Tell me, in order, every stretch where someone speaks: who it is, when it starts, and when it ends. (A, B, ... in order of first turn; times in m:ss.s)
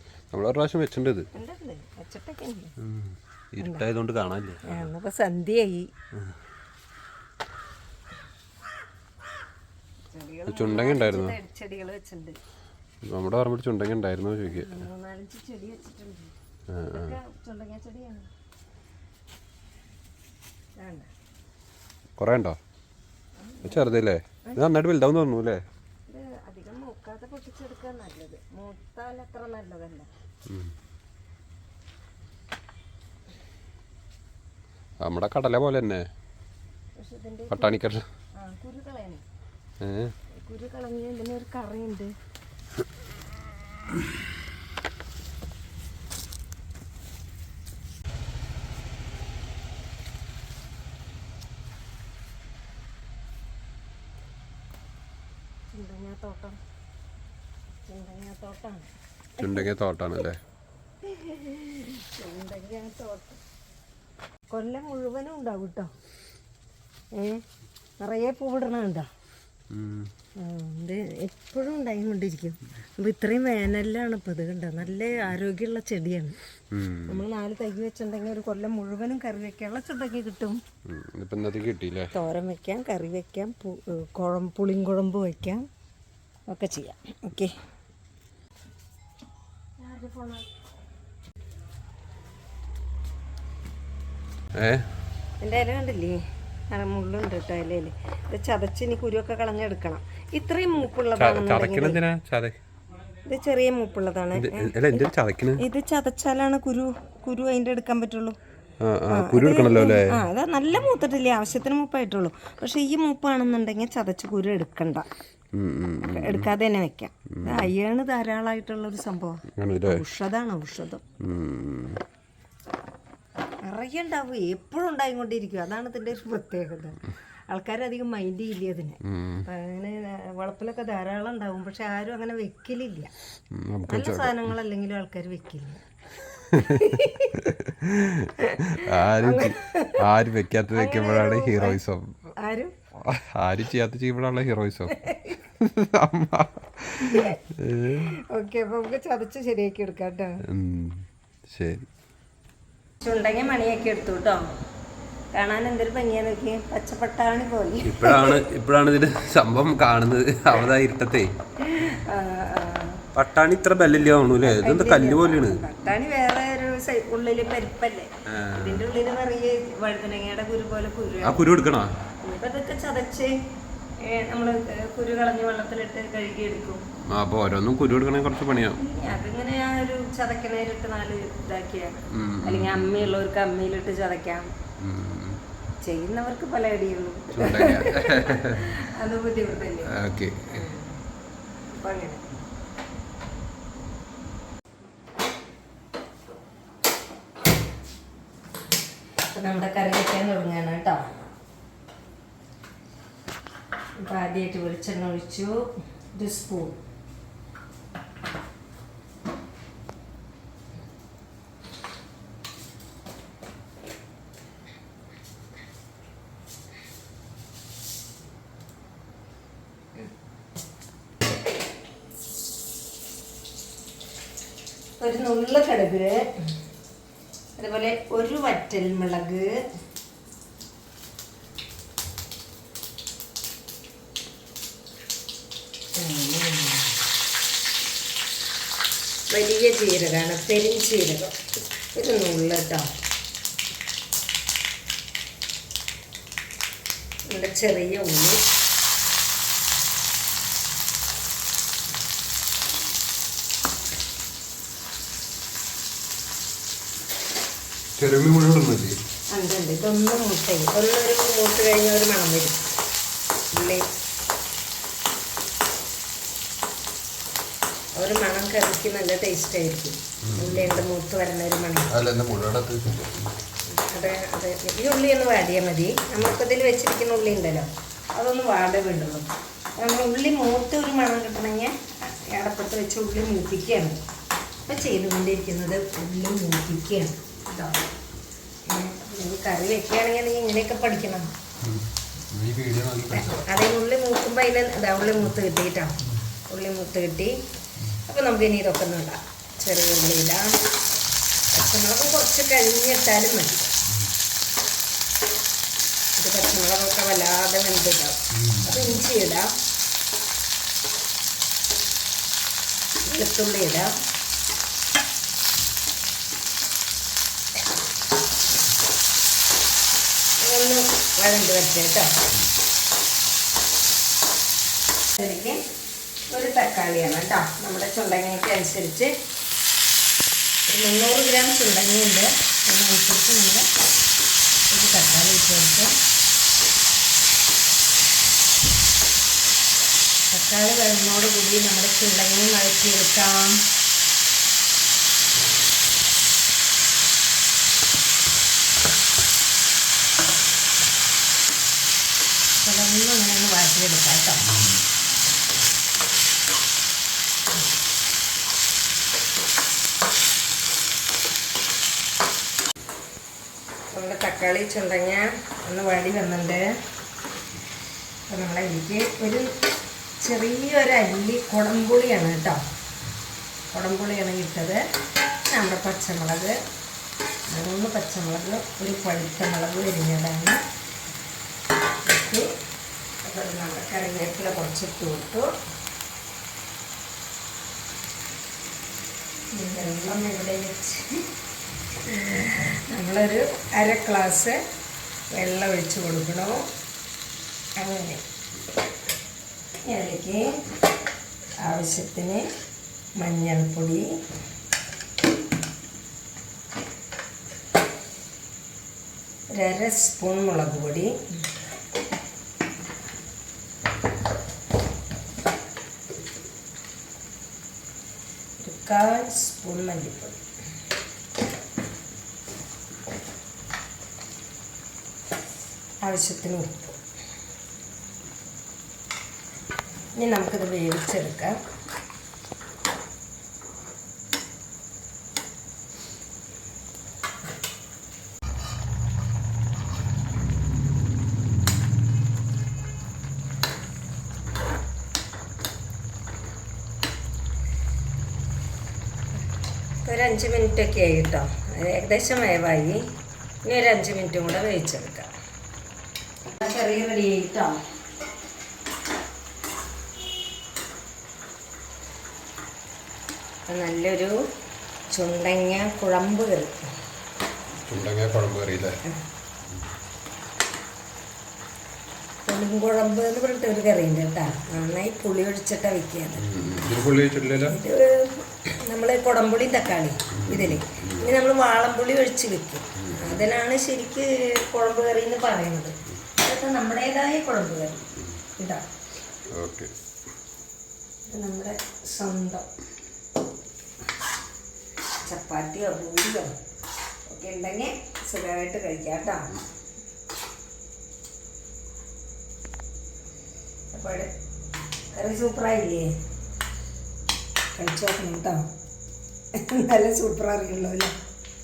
0:00.3-0:01.3 A
0:01.3-0:02.8 B
0:02.8-0:04.9 A
0:03.6-0:03.9 B
0:04.6-0:05.9 B
0:10.1-0:12.4 B
0:10.5-0:11.4 A
0:13.0-0:14.8 A
0:14.5-0:16.4 B
0:16.7-0:17.2 A
0:16.9-0:18.3 B
0:20.8-0:21.1 B
0:22.2-0:22.6 A
0:23.4-0:24.6 B
0:23.6-0:25.6 A
0:26.1-0:30.1 B
0:30.5-0:30.7 A
0:35.0-0:36.0 A
0:37.0-0:37.8 B
0:37.5-0:38.0 A
0:38.4-0:39.2 B
0:39.8-0:40.1 A
0:40.4-0:42.2 B
0:55.8-0:56.6 B
0:57.9-0:59.7 B
0:59.4-1:00.4 A
1:01.1-1:03.4 B
1:04.5-1:05.9 B
1:07.2-1:07.4 B
1:08.0-1:09.1 B
1:09.7-1:10.1 A
1:10.4-1:16.4 B
1:16.7-1:17.2 A
1:17.1-1:20.6 B
1:20.9-1:22.1 A
1:22.1-1:25.6 B
1:26.5-1:27.5 B
1:29.8-1:30.5 B
1:34.6-1:34.9 A
1:35.4-1:36.2 B
1:36.7-1:42.0 B
1:41.2-1:42.6 A
1:43.3-1:45.1 B
1:44.3-1:45.6 A
1:45.6-1:48.4 B
1:48.8-1:50.2 A
1:49.1-1:55.1 B
1:55.5-1:56.5 A
1:56.1-2:01.0 B
1:57.3-1:57.7 A
1:59.6-2:00.0 A
2:01.2-2:02.0 A
2:03.7-2:13.1 B
2:09.0-2:09.5 A
2:13.5-2:14.5 A
2:13.9-2:17.4 B
2:16.5-2:22.3 A
2:18.4-2:20.0 B
2:20.7-2:21.8 B
2:22.4-2:22.7 B
2:23.0-2:25.0 A
2:24.9-2:25.4 B
2:25.6-2:28.1 A
2:27.0-2:27.4 B
2:27.9-2:30.4 B
2:30.5-2:31.9 A
2:33.0-2:34.5 B
2:35.3-2:38.4 B
2:37.8-2:41.3 A
2:41.6-2:43.0 B
2:43.1-2:45.7 A
2:44.3-2:51.5 B
2:48.3-2:48.9 A
2:51.2-2:51.9 A
2:52.2-2:53.4 B
2:54.0-2:56.8 B
2:57.1-2:58.8 A
2:58.8-3:04.5 B
3:02.1-3:03.2 A
3:04.8-3:05.4 A
3:05.8-3:10.0 B
3:07.3-3:08.8 A
3:09.9-3:10.7 A
3:10.5-3:11.0 B
3:11.7-3:12.3 B
3:19.3-3:21.0 B
3:24.0-3:25.6 B
3:26.2-3:26.8 B
3:45.0-3:46.2 B
3:47.6-3:49.6 B
3:56.0-3:57.0 B
3:59.3-4:01.4 B
4:01.9-4:02.9 B
4:07.3-4:08.4 B
4:18.0-4:19.0 A
4:19.3-4:22.7 B
4:23.5-4:23.9 B
4:27.9-4:31.9 B
4:30.2-4:30.8 A
4:31.9-4:33.4 A
4:33.9-4:44.0 B
4:44.7-4:47.8 B
4:48.7-4:51.3 B
4:51.6-4:53.6 A
4:53.1-4:56.0 B
4:56.5-4:57.4 B
4:58.0-5:00.6 B
5:01.5-5:03.7 B
5:06.2-5:09.5 B
5:08.3-5:09.0 A
5:13.0-5:13.9 B
5:20.4-5:22.1 B
5:25.2-5:25.6 B
5:26.3-5:29.1 B
5:30.7-5:33.7 B
5:34.7-5:35.9 B
5:40.3-5:43.6 B
5:52.6-5:54.5 B
6:03.9-6:06.7 B
6:08.3-6:09.5 B
6:10.2-6:12.6 B
6:13.7-6:14.8 B
6:15.5-6:16.6 B
6:17.5-6:20.6 B
6:22.0-6:22.5 B
6:23.2-6:25.5 B
6:29.5-6:31.2 B
6:32.1-6:34.6 B
6:35.3-6:36.7 B
6:37.8-6:38.2 B
6:39.8-6:40.4 B
6:41.6-6:42.5 B
6:43.2-6:44.0 B
6:49.5-6:51.2 B
6:58.6-7:00.4 B
7:06.0-7:07.0 B
7:10.2-7:11.6 B
7:30.0-7:33.0 B
7:33.6-7:35.3 B
7:36.6-7:37.8 B
7:43.7-7:44.3 B
7:45.1-7:46.9 B
7:47.9-7:49.0 A
7:52.5-7:56.5 B
7:56.4-7:57.8 A
7:57.7-8:08.1 B
8:00.3-8:01.3 A
8:03.0-8:03.4 A
8:08.6-8:08.8 B
8:09.5-8:09.9 A
8:11.3-8:12.7 B
8:15.2-8:16.5 B
8:17.3-8:19.5 B
8:23.9-8:24.3 B
8:25.1-8:26.1 B
8:27.8-8:28.6 B
8:29.6-8:31.1 B